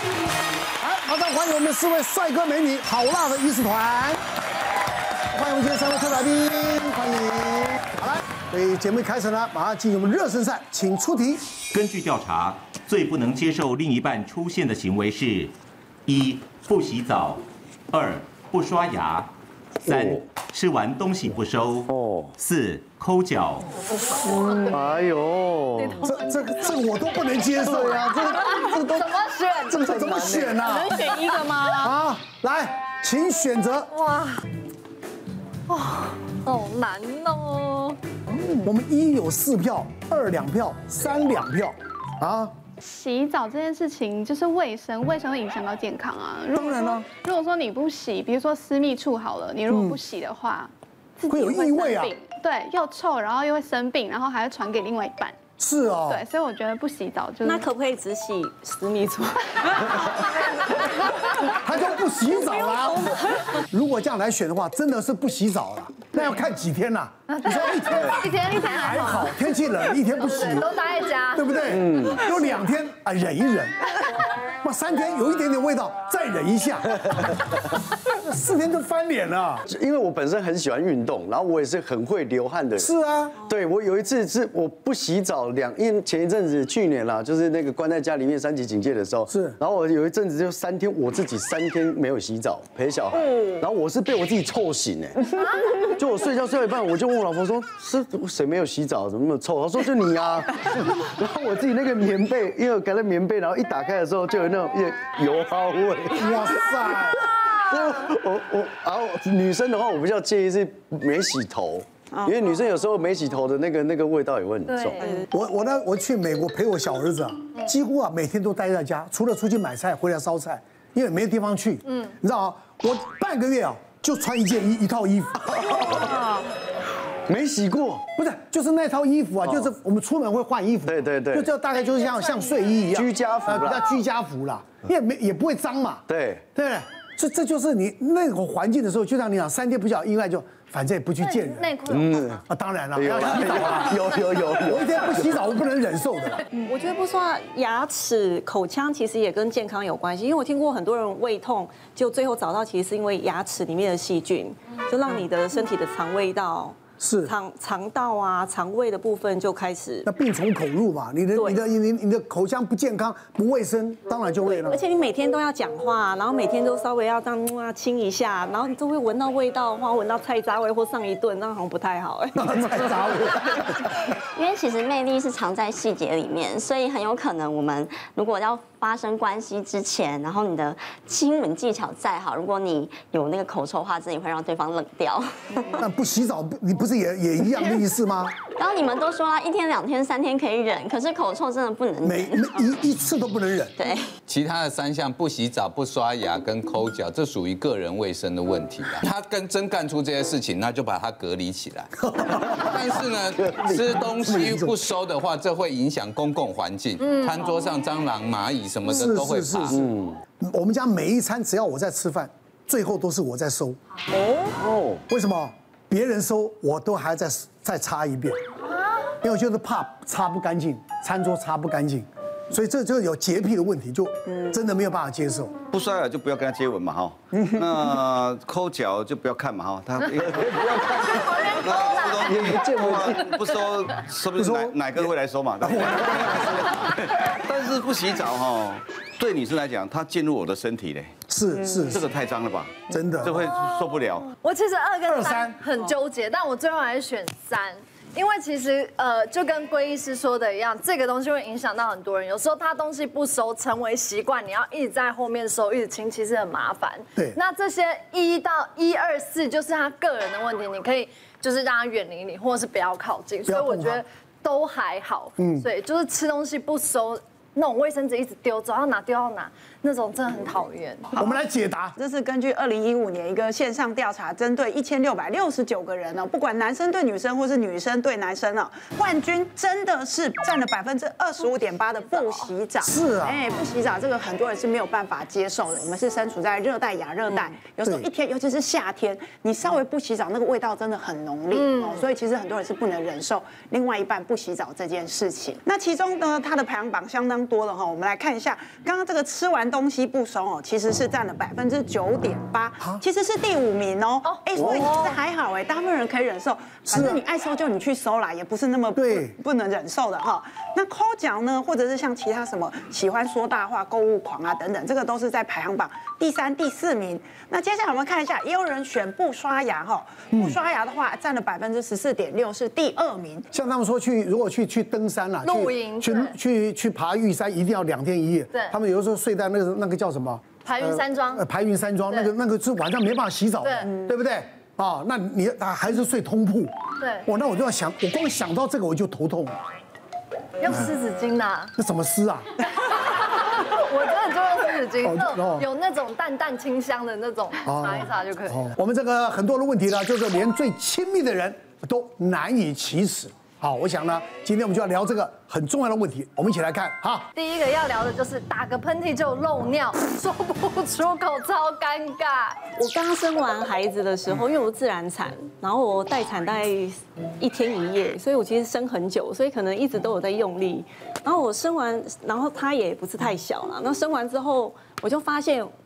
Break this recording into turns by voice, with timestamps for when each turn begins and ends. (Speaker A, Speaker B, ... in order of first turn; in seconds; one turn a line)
Speaker A: 0.8-4.2
Speaker A: 5.3-11.4
Speaker B: 11.7-15.5
Speaker B: 16.1-17.4
Speaker B: 17.9-19.3
Speaker C: 19.9-20.2
Speaker B: 19.9-21.9
Speaker C: 21.9-22.4
Speaker B: 22.4-23.6
Speaker C: 24.2-26.1
Speaker D: 24.5-24.8
Speaker D: 25.8-26.2
Speaker A: 26.0-28.2
Speaker C: 27.6-30.7
Speaker D: 28.2-29.9
Speaker A: 29.7-31.0
Speaker E: 30.6-31.9
Speaker A: 31.8-33.9
Speaker D: 33.9-34.4
Speaker D: 35.7-38.0
Speaker A: 38.5-42.5
Speaker F: 42.9-55.3
Speaker A: 46.5-47.0
Speaker A: 49.7-50.0
Speaker A: 51.3-52.1
Speaker A: 55.6-56.2
Speaker F: 56.1-57.6
Speaker E: 57.4-60.3
Speaker A: 61.6-70.7
Speaker D: 67.3-69.3
Speaker D: 70.1-71.6
Speaker A: 71.3-74.0
Speaker C: 71.7-72.2
Speaker A: 74.6-76.9
Speaker A: 78.1-79.6
Speaker C: 79.7-95.2
Speaker A: 82.8-83.4
Speaker A: 89.3-89.6
Speaker G: 93.1-93.5
Speaker C: 95.9-115.1
Speaker A: 106.2-107.2
Speaker D: 114.7-115.0
Speaker A: 115.2-126.0
Speaker D: 121.8-122.1
Speaker C: 125.5-126.2
Speaker C: 127.3-128.0
Speaker A: 128.2-136.0
Speaker C: 129.4-129.7
Speaker C: 130.9-131.5
Speaker C: 132.9-133.9
Speaker C: 136.1-136.4
Speaker A: 136.5-141.8
Speaker D: 141.2-142.3
Speaker C: 141.9-142.4
Speaker A: 142.4-144.0
Speaker C: 142.9-145.4
Speaker A: 144.6-146.4
Speaker E: 146.6-160.1
Speaker A: 157.0-157.3
Speaker A: 160.1-164.8
Speaker E: 161.3-161.6
Speaker E: 164.4-172.8
Speaker A: 172.4-173.7
Speaker H: 174.3-185.6
Speaker A: 185.8-188.3
Speaker H: 188.6-192.6
Speaker A: 192.0-193.7
Speaker H: 193.8-194.1
Speaker I: 194.3-209.8
Speaker C: 203.4-203.8
Speaker A: 203.7-204.8
Speaker A: 208.8-209.8
Speaker C: 209.7-210.2
Speaker A: 210.4-213.8
Speaker C: 214.6-215.0
Speaker A: 215.1-218.4
Speaker A: 219.2-225.5
Speaker J: 225.7-241.1
Speaker C: 230.2-233.3
Speaker D: 231.1-232.3
Speaker A: 234.3-236.8
Speaker A: 241.3-242.1
Speaker J: 241.9-244.3
Speaker A: 242.9-243.4
Speaker D: 244.3-271.1
Speaker A: 245.1-245.6
Speaker A: 263.4-264.0
Speaker A: 265.4-265.6
Speaker A: 271.1-271.9
Speaker G: 271.1-271.4
Speaker G: 271.9-323.5
Speaker A: 282.8-283.4
Speaker D: 291.5-292.0
Speaker D: 304.2-305.1
Speaker A: 304.6-304.9
Speaker A: 306.9-307.2
Speaker A: 309.0-309.3
Speaker A: 320.3-320.6
Speaker A: 323.5-336.7
Speaker D: 325.4-326.3
Speaker D: 330.6-331.4
Speaker D: 333.6-333.9
Speaker D: 337.0-337.2
Speaker A: 337.2-339.6
Speaker D: 340.6-341.7
Speaker A: 340.7-340.9
Speaker A: 341.8-342.5
Speaker D: 342.8-348.7
Speaker A: 345.0-345.7
Speaker A: 347.6-357.3
Speaker D: 357.3-362.6
Speaker E: 362.7-375.7